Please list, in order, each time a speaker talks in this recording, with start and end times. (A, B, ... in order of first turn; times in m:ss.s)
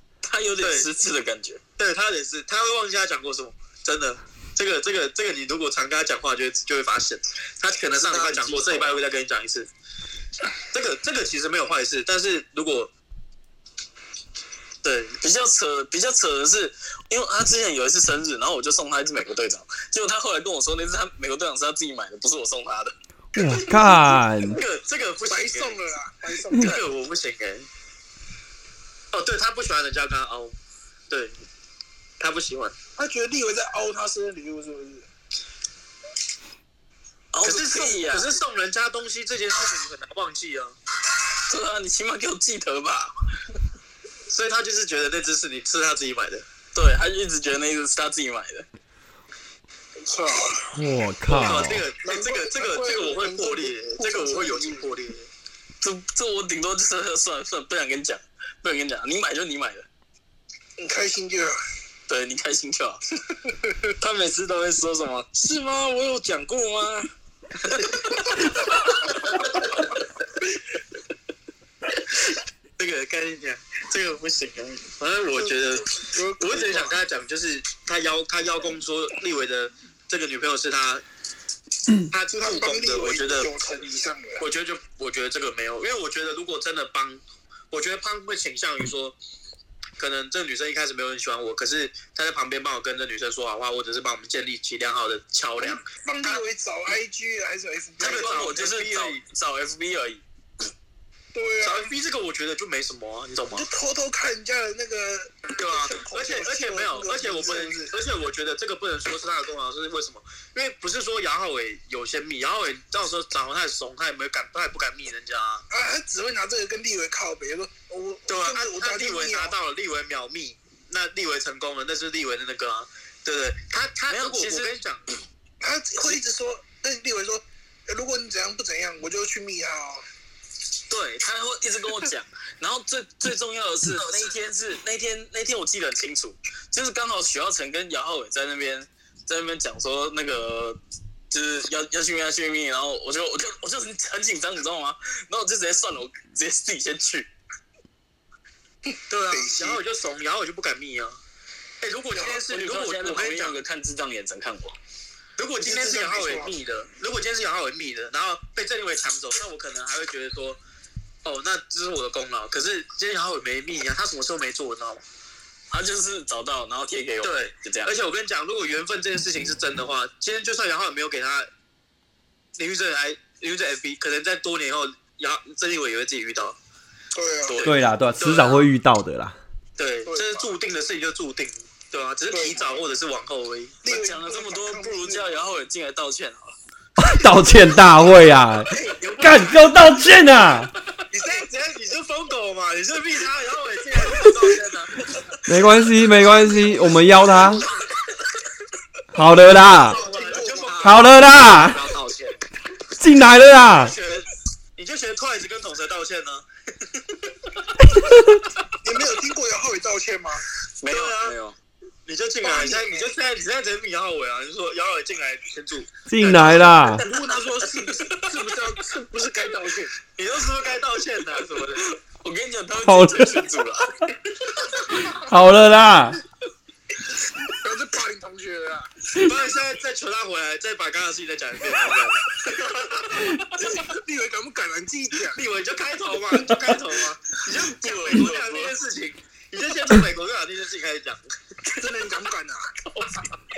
0:00.2-0:01.6 A
0:00.6-0:00.9 B
0:01.8-0:09.7 B
0:08.0-0:09.0 A
0:10.7-0:12.9 B
0:14.8-0:15.2 B
0:15.2-0:22.9 A
0:23.3-0:24.6 C
0:24.5-0:25.8 B
0:25.2-0:26.8 D
0:26.6-0:27.7 B
0:29.1-0:30.6 B
0:31.1-0:31.4 B
0:32.2-0:32.7 B
0:33.0-0:35.0 D
0:37.3-0:38.3 A
0:37.4-0:40.8 B
0:41.5-0:43.1 A
0:44.3-0:46.4 B
0:46.7-0:48.7 A
0:50.0-0:50.7 D
0:50.7-0:51.9 C
0:51.3-0:55.3 B
0:52.0-0:54.9 D
0:55.8-0:59.9 A
1:00.8-1:01.6 D
1:02.1-1:03.0 A
1:03.4-1:03.9 D
1:04.0-1:07.0 A
1:12.8-1:21.0 B
1:15.3-1:17.0 D
1:22.1-1:23.5 B
1:22.3-1:24.4 D
1:24.4-1:29.2 B
1:30.0-1:36.4 B
1:35.6-1:38.5 D
1:38.0-1:40.2 A
1:38.0-1:39.2 B
1:41.3-1:41.9 D
1:41.6-1:43.7 B
1:43.5-1:48.0 D
1:45.6-1:55.6 B
1:55.7-1:59.5 D
1:58.3-2:05.0 B
2:04.1-2:04.7 A
2:05.6-2:10.0 D
2:10.9-2:20.8 A
2:21.3-2:27.3 A
2:28.9-2:29.8 D
2:29.1-2:31.2 B
2:31.8-2:33.6 B
2:32.2-2:34.8 A
2:35.4-2:40.6 B
2:35.6-2:36.5 D
2:41.2-2:45.0 B
2:45.7-2:47.9 A
2:47.2-2:51.5 B
2:52.6-2:56.6 B
2:57.1-2:57.6 D
2:57.5-2:58.7 B
2:57.6-2:59.4 C
2:59.8-3:03.8 B
3:00.0-3:00.5 D
3:02.3-3:02.7 D
3:03.8-3:05.3 D
3:03.8-3:06.5 A
3:07.0-3:10.7 C
3:08.8-3:09.6 B
3:11.1-3:15.1 B
3:15.4-3:17.6 C
3:19.1-3:20.0 C
3:19.7-3:21.1 B
3:19.9-3:20.9 D
3:20.4-3:22.4 A
3:20.8-3:21.8 C
3:23.0-3:23.9 C
3:23.8-3:26.4 B
3:28.8-3:30.4 D
3:30.8-3:31.6 A
3:30.9-3:31.4 B
3:32.0-3:37.3 B
3:32.4-3:33.1 D
3:36.1-3:37.0 C
3:37.0-3:39.9 D
3:37.8-3:38.2 B
3:40.1-3:41.8 B
3:41.8-3:43.9 A
3:42.8-3:43.4 C
3:45.1-3:46.2 C
3:47.6-3:48.9 D
3:49.1-3:53.3 B
3:53.6-3:55.4 D
3:55.3-4:01.2 B
3:57.7-3:58.7 A
4:01.8-4:02.7 D